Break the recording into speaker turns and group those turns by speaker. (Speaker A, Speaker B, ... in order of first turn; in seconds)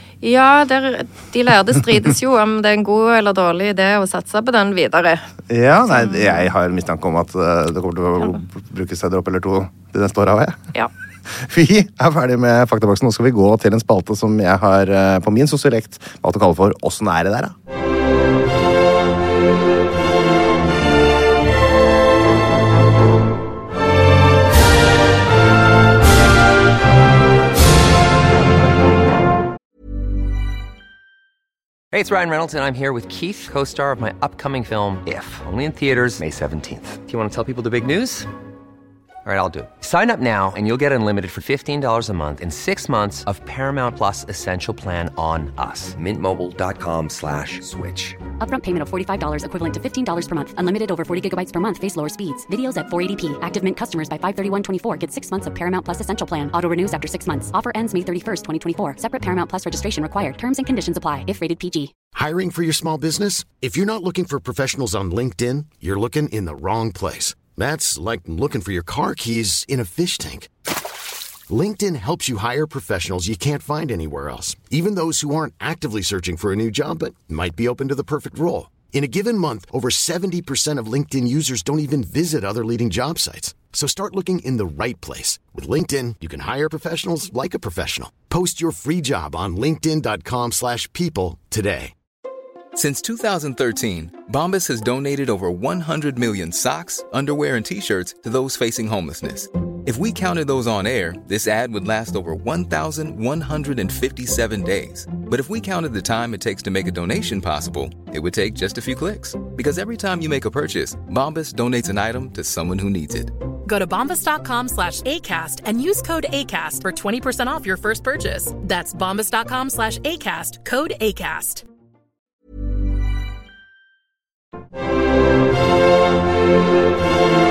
Speaker A: 0.2-5.2, 5.9-6.5
Speaker B: 5.5-10.6, 11.3-17.5
Speaker C: 31.9-38.3, 39.2-48.2
Speaker D: 48.4-61.9
Speaker E: 62.1-70.5, 71.5-91.9
Speaker F: 92.7-113.3
Speaker G: 113.7-121.6